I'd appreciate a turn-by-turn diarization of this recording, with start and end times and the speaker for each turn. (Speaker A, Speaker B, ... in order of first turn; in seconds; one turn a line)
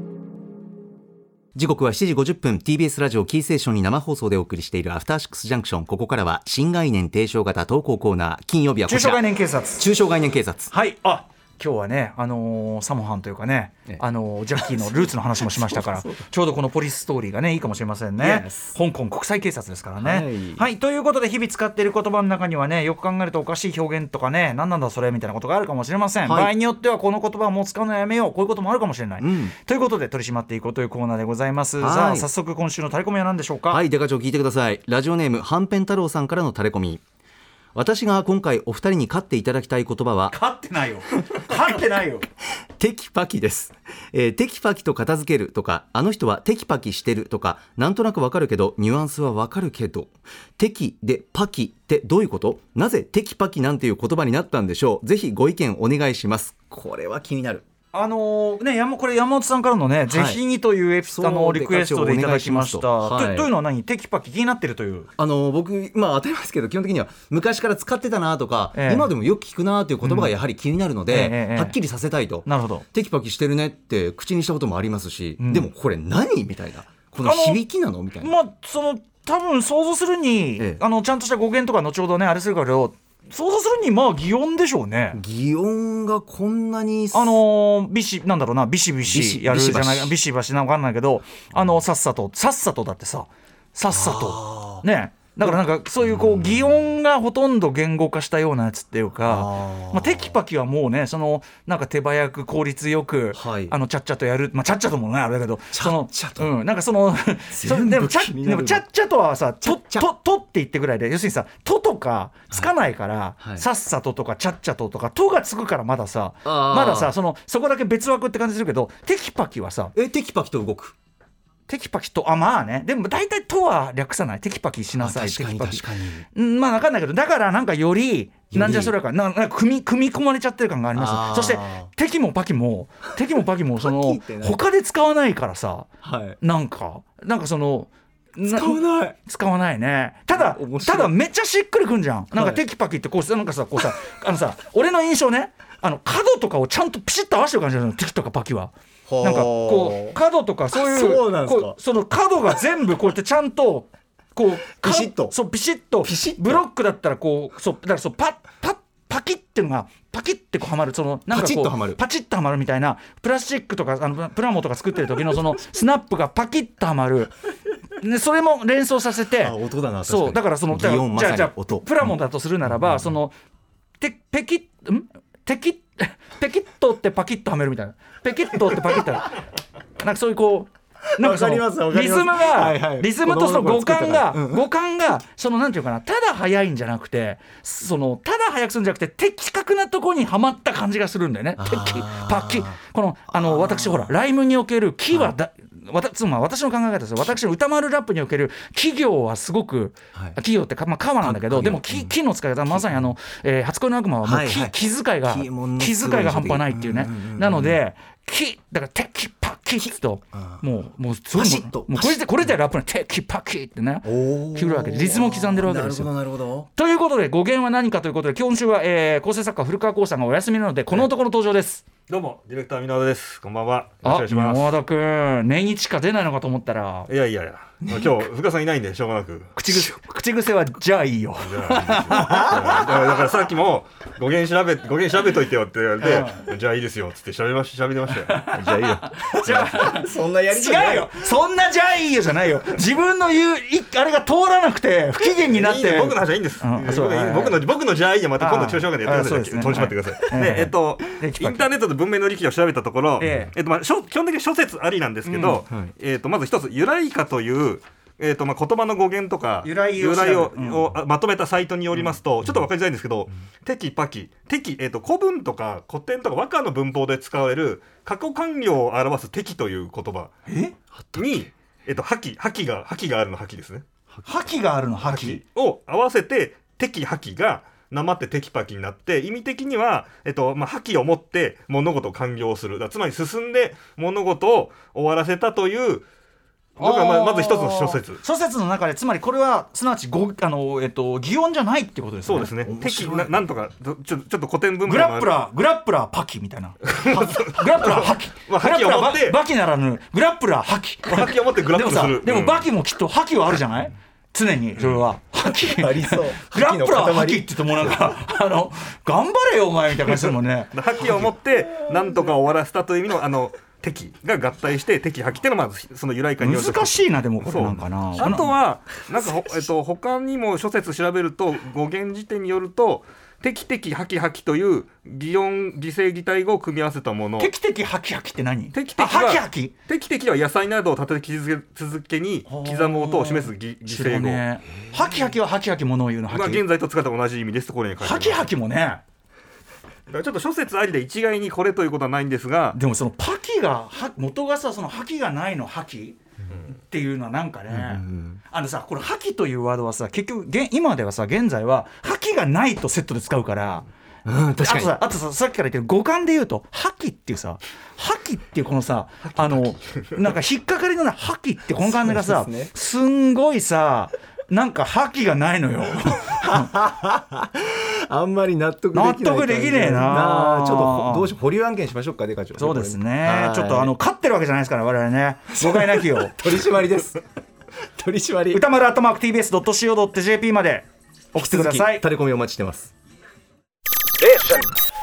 Speaker A: 1.5-9.2
Speaker B: 8.9-9.9
Speaker A: 9.8-10.7
Speaker B: 10.7-33.8
Speaker A: 14.6-16.2
Speaker A: 18.2-18.7
Speaker A: 20.0-20.7
Speaker A: 26.2-26.5
Speaker A: 29.2-29.5
Speaker A: 31.8-32.3
Speaker A: 33.7-37.0
Speaker A: 37.7-40.3
Speaker B: 40.3-42.2
Speaker A: 42.8-57.6
Speaker B: 57.9-65.1
Speaker A: 60.1-60.4
Speaker A: 61.1-63.5
Speaker A: 65.2-78.3
Speaker B: 68.7-69.1
Speaker B: 70.0-70.3
Speaker B: 71.1-71.8
Speaker B: 72.4-72.8
Speaker B: 75.4-75.7
Speaker B: 77.2-77.6
Speaker B: 78.2-85.2
Speaker A: 85.1-87.4
Speaker B: 87.1-119.9
Speaker A: 89.0-90.2
Speaker A: 93.9-94.8
Speaker A: 95.4-96.8
Speaker A: 99.2-100.3
Speaker A: 103.3-103.7
Speaker A: 105.7-106.5
Speaker A: 107.5-108.8
Speaker A: 109.6-110.1
Speaker A: 116.4-117.1
Speaker A: 119.9-120.9
Speaker B: 121.7-135.9
Speaker A: 125.0-126.2
Speaker A: 128.5-129.0
Speaker A: 130.9-131.9
Speaker A: 133.4-134.6
Speaker A: 136.0-136.4
Speaker B: 136.4-167.3
Speaker A: 138.4-139.2
Speaker A: 140.3-141.1
Speaker A: 142.3-142.6
Speaker A: 149.1-150.2
Speaker A: 150.7-151.8
Speaker A: 154.7-155.3
Speaker A: 156.0-156.6
Speaker A: 161.3-162.0
Speaker B: 167.9-173.3
Speaker A: 169.4-172.1
Speaker A: 172.6-173.1
Speaker B: 174.0-179.4
Speaker B: 180.0-216.1
Speaker A: 181.2-184.7
Speaker A: 191.6-192.8
Speaker A: 193.3-194.1
Speaker A: 201.2-203.1
Speaker A: 204.2-207.8
Speaker A: 209.9-210.6
Speaker A: 211.3-212.5
Speaker A: 214.0-216.7
Speaker B: 216.7-221.8
Speaker C: 222.1-224.7
Speaker B: 224.0-227.1
Speaker C: 227.1-229.6
Speaker B: 229.6-232.8
Speaker C: 231.4-238.5
Speaker A: 232.1-232.6
Speaker B: 236.0-236.4
Speaker B: 238.3-247.6
Speaker A: 238.5-241.2
Speaker C: 245.3-270.3
Speaker B: 248.4-251.7
Speaker B: 253.2-253.5
Speaker B: 255.3-255.6
Speaker B: 259.6-260.9
Speaker B: 270.5-270.7
Speaker A: 271.0-271.5
Speaker C: 271.1-273.8
Speaker B: 274.2-275.4
Speaker C: 275.1-286.1
Speaker C: 286.8-288.2
Speaker B: 286.8-292.5
Speaker C: 292.2-295.3
Speaker A: 292.6-293.4
Speaker B: 294.8-310.7
Speaker C: 296.9-299.4
Speaker C: 301.1-302.6
Speaker A: 305.4-308.1
Speaker C: 310.1-327.5
Speaker B: 316.4-318.5
Speaker B: 327.4-329.7
Speaker C: 328.7-334.4
Speaker B: 332.5-336.6
Speaker C: 336.3-338.5
Speaker B: 338.0-339.0
Speaker C: 340.1-342.8
Speaker B: 342.7-353.9
Speaker A: 347.7-348.4
Speaker A: 354.2-354.9
Speaker B: 354.6-366.7
Speaker C: 359.4-359.8
Speaker A: 361.8-362.7
Speaker A: 366.1-373.9
Speaker B: 368.9-371.3
Speaker B: 372.6-376.6
Speaker A: 375.6-377.2
Speaker A: 377.9-378.6
Speaker B: 378.5-382.0
Speaker A: 381.3-382.9